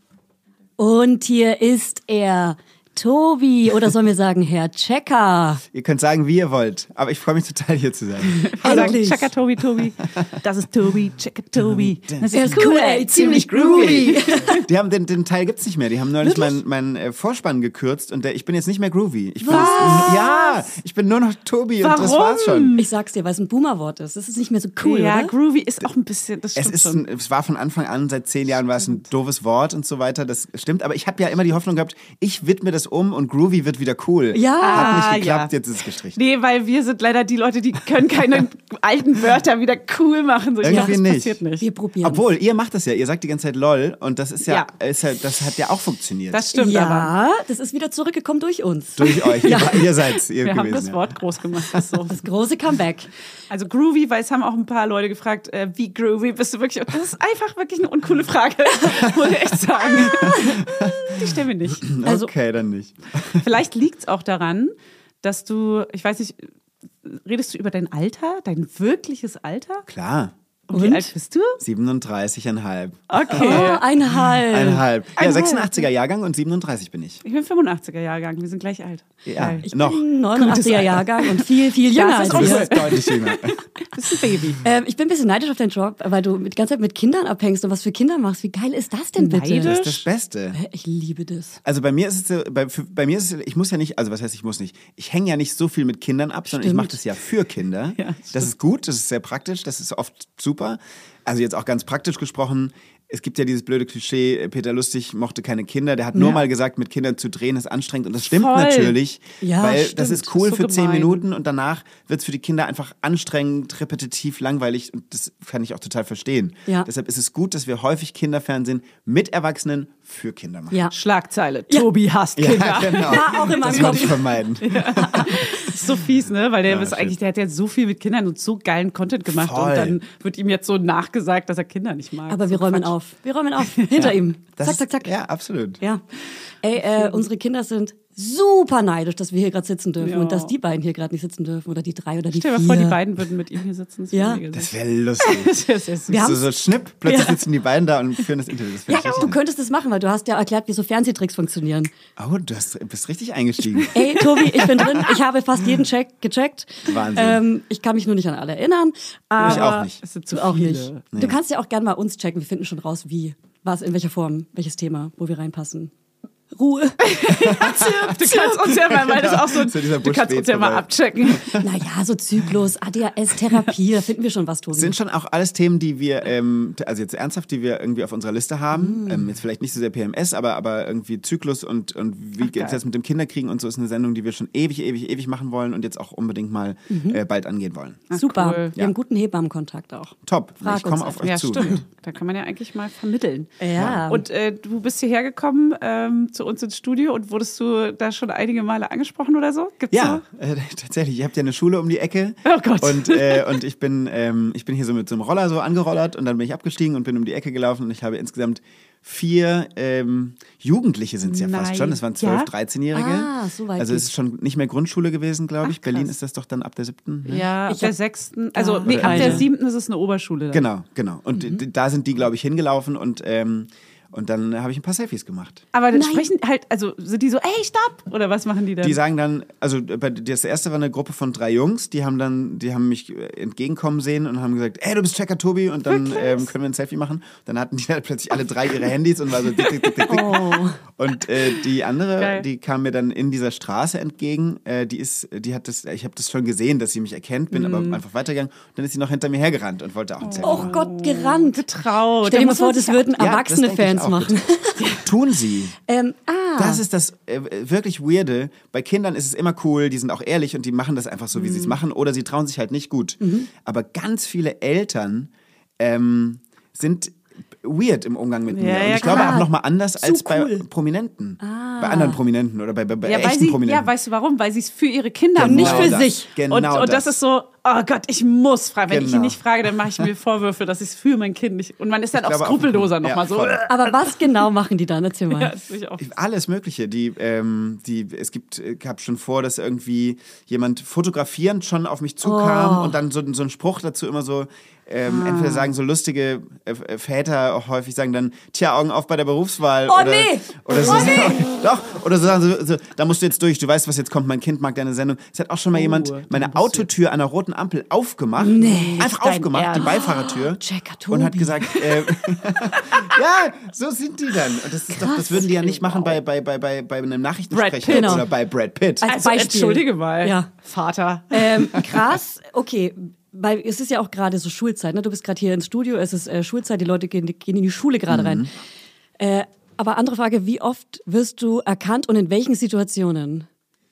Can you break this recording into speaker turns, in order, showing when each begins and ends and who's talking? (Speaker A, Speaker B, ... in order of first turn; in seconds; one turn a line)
Speaker A: 0.8-5.6
Speaker B: 5.7-9.0
Speaker C: 8.4-14.5
Speaker A: 8.6-9.3
Speaker B: 11.6-22.8
Speaker A: 12.3-14.6
Speaker A: 16.2-16.6
Speaker A: 19.4-20.2
Speaker C: 19.5-20.5
Speaker C: 21.8-22.8
Speaker A: 22.7-25.3
Speaker C: 24.8-27.0
Speaker B: 26.6-36.2
Speaker A: 34.3-35.1
Speaker C: 34.6-35.5
Speaker C: 36.1-41.6
Speaker B: 40.6-41.4
Speaker A: 40.7-41.0
Speaker A: 41.6-42.2
Speaker B: 42.0-46.4
Speaker C: 46.3-47.1
Speaker A: 46.5-49.8
Speaker B: 49.0-51.1
Speaker C: 50.4-52.2
Speaker A: 52.1-53.1
Speaker C: 53.5-61.9
Speaker B: 60.0-61.2
Speaker A: 60.1-60.5
Speaker B: 61.8-63.5
Speaker A: 62.0-62.3
Speaker C: 63.4-66.5
Speaker C: 67.0-69.8
Speaker B: 69.9-70.3
Speaker C: 70.7-71.6
Speaker A: 70.7-71.1
Speaker B: 71.6-73.7
Speaker C: 73.1-73.8
Speaker A: 73.3-74.8
Speaker B: 74.2-77.2
Speaker C: 75.2-75.9
Speaker C: 77.2-79.7
Speaker B: 79.2-80.9
Speaker A: 79.6-82.7
Speaker C: 80.4-84.6
Speaker B: 82.2-83.6
Speaker A: 84.6-89.7
Speaker C: 89.2-90.0
Speaker B: 89.6-90.6
Speaker A: 90.5-91.6
Speaker B: 91.6-120.8
Speaker A: 96.5-97.0
Speaker C: 98.0-98.5
Speaker C: 108.2-109.0
Speaker A: 109.4-110.0
Speaker C: 109.8-111.2
Speaker C: 120.9-132.9
Speaker B: 122.3-125.8
Speaker A: 123.0-124.1
Speaker B: 126.7-127.2
Speaker B: 129.3-130.0
Speaker A: 132.3-135.1
Speaker C: 133.6-134.1
Speaker B: 133.9-135.8
Speaker A: 136.6-143.0
Speaker C: 136.9-137.2
Speaker C: 140.0-140.5
Speaker C: 142.3-146.3
Speaker A: 144.1-144.4
Speaker B: 144.5-149.4
Speaker A: 146.1-146.5
Speaker A: 147.0-147.4
Speaker A: 148.9-151.9
Speaker B: 152.2-155.1
Speaker A: 153.9-165.9
Speaker B: 156.8-157.4
Speaker B: 159.4-160.0
Speaker C: 159.4-161.0
Speaker A: 166.5-167.5
Speaker C: 167.0-171.5
Speaker B: 167.4-171.6
Speaker A: 171.5-174.9
Speaker B: 174.7-188.1
Speaker A: 178.7-179.3
Speaker C: 182.4-182.8
Speaker A: 186.9-187.2
Speaker C: 188.1-188.7
Speaker A: 188.1-191.8
Speaker B: 190.2-191.8
Speaker C: 191.2-193.6
Speaker A: 193.6-194.2
Speaker B: 193.8-194.0
Speaker C: 194.1-200.2
Speaker B: 199.9-217.4
Speaker C: 202.4-203.6
Speaker C: 211.2-212.5
Speaker A: 212.9-214.1
Speaker C: 217.3-220.7
Speaker A: 217.7-217.9
Speaker A: 218.5-219.4
Speaker B: 218.8-219.5
Speaker B: 220.5-225.6
Speaker C: 225.7-229.0
Speaker A: 225.9-226.3
Speaker B: 228.8-250.7
Speaker C: 235.9-236.5
Speaker A: 240.1-240.8
Speaker C: 242.2-242.4
Speaker C: 247.5-248.0
Speaker C: 250.2-253.1
Speaker A: 250.4-251.6
Speaker A: 252.2-255.0
Speaker B: 253.1-254.4
Speaker C: 254.8-255.0
Speaker B: 255.0-255.7
Speaker A: 255.8-256.8
Speaker B: 256.6-273.9
Speaker C: 261.3-261.7
Speaker A: 263.2-263.5
Speaker C: 268.5-269.4
Speaker A: 269.0-270.6
Speaker A: 271.4-272.2
Speaker C: 273.0-284.2
Speaker B: 275.3-277.2
Speaker A: 275.4-276.3
Speaker B: 278.9-279.4
Speaker B: 282.1-283.6
Speaker A: 283.7-285.5
Speaker C: 285.3-286.2
Speaker B: 286.0-319.1
Speaker A: 292.2-293.0
Speaker A: 299.9-301.5
Speaker C: 305.7-306.9
Speaker A: 308.4-309.1
Speaker C: 308.6-310.0
Speaker A: 309.7-311.9
Speaker A: 314.9-315.5
Speaker C: 315.3-316.1
Speaker C: 317.5-318.3
Speaker A: 317.9-318.2
Speaker A: 319.0-320.5
Speaker C: 319.0-321.9
Speaker A: 321.3-328.5
Speaker B: 328.1-328.5
Speaker A: 329.2-333.5